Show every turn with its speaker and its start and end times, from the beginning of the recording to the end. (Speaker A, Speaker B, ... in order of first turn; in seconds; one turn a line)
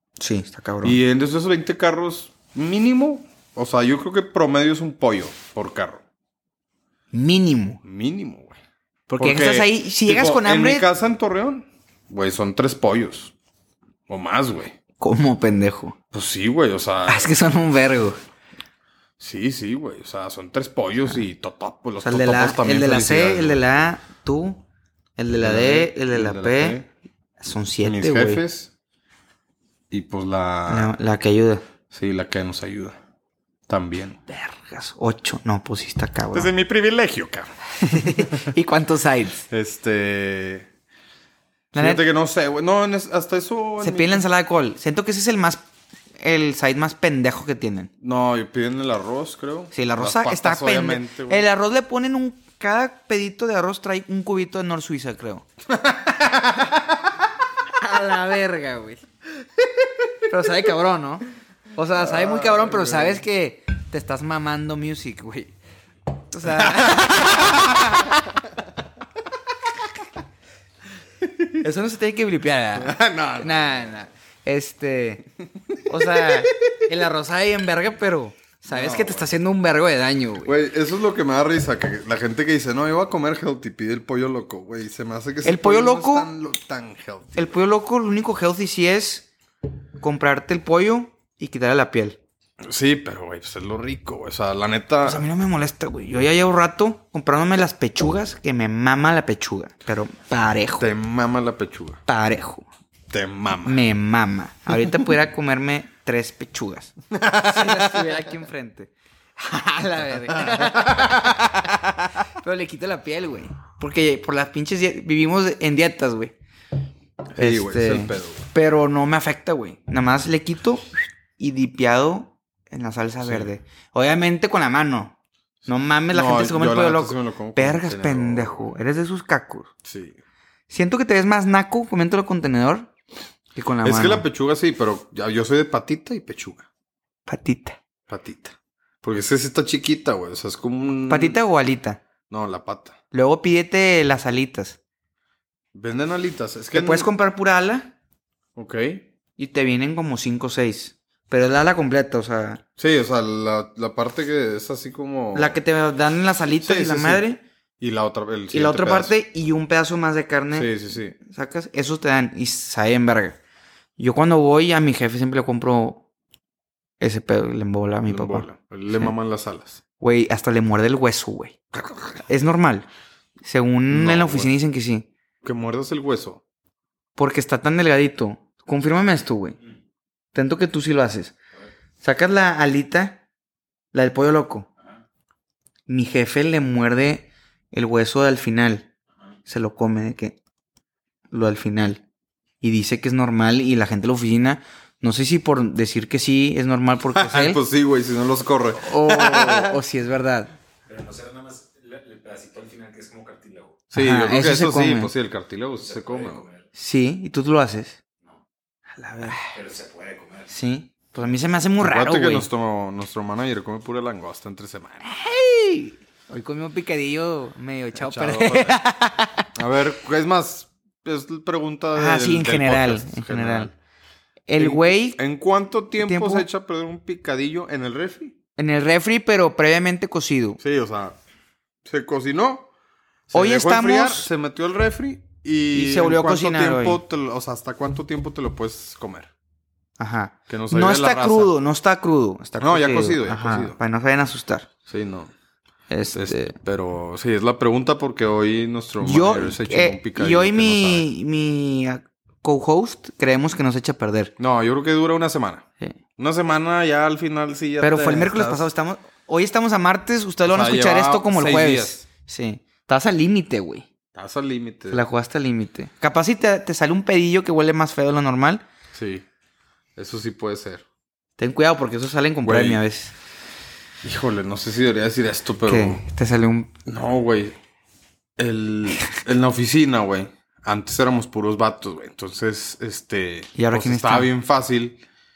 Speaker A: 0.2-1.0
Speaker B: 0.8-6.0
Speaker A: 7.1-7.8
Speaker B: 7.8-8.6
Speaker A: 9.1-10.9
Speaker B: 9.2-13.3
Speaker B: 14.1-14.8
Speaker A: 15.0-15.9
Speaker B: 16.1-17.3
Speaker A: 17.1-18.2
Speaker B: 19.2-23.6
Speaker A: 22.0-24.6
Speaker A: 25.2-26.8
Speaker B: 25.4-26.9
Speaker A: 27.4-28.4
Speaker B: 27.8-28.7
Speaker B: 29.9-30.9
Speaker A: 30.7-31.6
Speaker B: 31.9-33.0
Speaker B: 33.7-34.2
Speaker A: 34.3-36.5
Speaker B: 36.3-38.4
Speaker A: 37.8-39.5
Speaker B: 39.5-40.7
Speaker A: 41.7-42.0
Speaker B: 41.7-44.2
Speaker A: 43.8-45.6
Speaker A: 46.2-47.9
Speaker B: 48.0-51.5
Speaker A: 49.7-55.5
Speaker B: 55.7-56.9
Speaker A: 57.8-59.0
Speaker A: 60.2-65.5
Speaker B: 62.0-63.2
Speaker A: 66.3-68.2
Speaker B: 66.5-68.2
Speaker B: 71.2-71.6
Speaker A: 71.6-75.2
Speaker B: 72.7-73.9
Speaker A: 75.9-80.5
Speaker B: 75.9-76.8
Speaker B: 78.7-79.3
Speaker B: 80.4-87.6
Speaker A: 85.4-86.3
Speaker A: 87.4-89.3
Speaker A: 90.0-92.2
Speaker B: 92.6-95.2
Speaker A: 95.0-100.8
Speaker B: 100.8-102.0
Speaker A: 102.1-102.7
Speaker B: 103.1-103.8
Speaker A: 103.6-106.9
Speaker B: 107.1-108.2
Speaker A: 107.4-116.3
Speaker B: 110.4-111.5
Speaker B: 117.3-118.5
Speaker A: 117.4-125.1
Speaker B: 123.2-123.5
Speaker B: 125.6-128.7
Speaker A: 125.7-129.7
Speaker B: 129.8-130.2
Speaker A: 130.7-132.9
Speaker A: 133.5-134.2
Speaker B: 133.8-136.7
Speaker A: 137.2-137.8
Speaker B: 138.1-141.4
Speaker A: 141.1-142.0
Speaker B: 142.3-143.0
Speaker A: 143.1-144.8
Speaker B: 145.7-147.1
Speaker A: 146.7-147.9
Speaker B: 148.6-149.0
Speaker A: 149.4-152.6
Speaker B: 152.8-155.6
Speaker A: 155.3-157.4
Speaker B: 156.6-157.2
Speaker B: 157.8-159.1
Speaker A: 158.5-163.4
Speaker B: 160.5-161.2
Speaker A: 164.0-166.0
Speaker A: 167.0-168.5
Speaker B: 168.1-169.8
Speaker A: 170.0-171.6
Speaker B: 171.7-172.1
Speaker A: 172.2-172.9
Speaker A: 173.4-175.1
Speaker B: 173.9-174.5
Speaker B: 175.4-176.4
Speaker A: 177.2-179.6
Speaker A: 180.3-181.4
Speaker A: 182.0-183.2
Speaker A: 183.9-184.7
Speaker A: 185.9-188.9
Speaker A: 189.4-190.4
Speaker A: 191.3-192.0
Speaker A: 192.6-197.6
Speaker B: 197.1-199.8
Speaker A: 198.8-200.5
Speaker C: 200.9-203.8
Speaker B: 203.9-206.5
Speaker A: 203.9-205.1
Speaker C: 205.9-206.6
Speaker A: 206.7-208.0
Speaker A: 209.0-209.5
Speaker C: 209.4-210.5
Speaker A: 210.5-212.4
Speaker B: 211.8-215.1
Speaker A: 215.0-219.4
Speaker B: 217.9-218.8
Speaker B: 219.5-223.7
Speaker A: 221.9-223.7
Speaker A: 224.5-225.2
Speaker B: 224.6-228.4
Speaker A: 226.0-226.5
Speaker A: 228.6-230.6
Speaker B: 230.6-231.2
Speaker B: 231.8-232.7
Speaker B: 233.3-239.3
Speaker A: 233.3-234.3
Speaker A: 235.7-237.0
Speaker A: 240.0-244.7
Speaker B: 240.5-241.5
Speaker B: 242.6-243.8
Speaker B: 244.9-245.3
Speaker A: 245.9-246.6
Speaker B: 246.1-251.1
Speaker A: 249.0-254.3
Speaker B: 254.4-255.6
Speaker B: 256.2-258.7
Speaker A: 257.8-263.9
Speaker B: 260.4-262.0
Speaker B: 264.1-265.0
Speaker A: 264.9-268.6
Speaker B: 268.9-269.2
Speaker B: 269.9-270.9
Speaker A: 271.4-273.1
Speaker B: 272.4-272.8
Speaker B: 274.0-276.0
Speaker A: 275.6-276.7
Speaker B: 276.9-277.5
Speaker B: 278.4-285.0
Speaker A: 283.6-284.3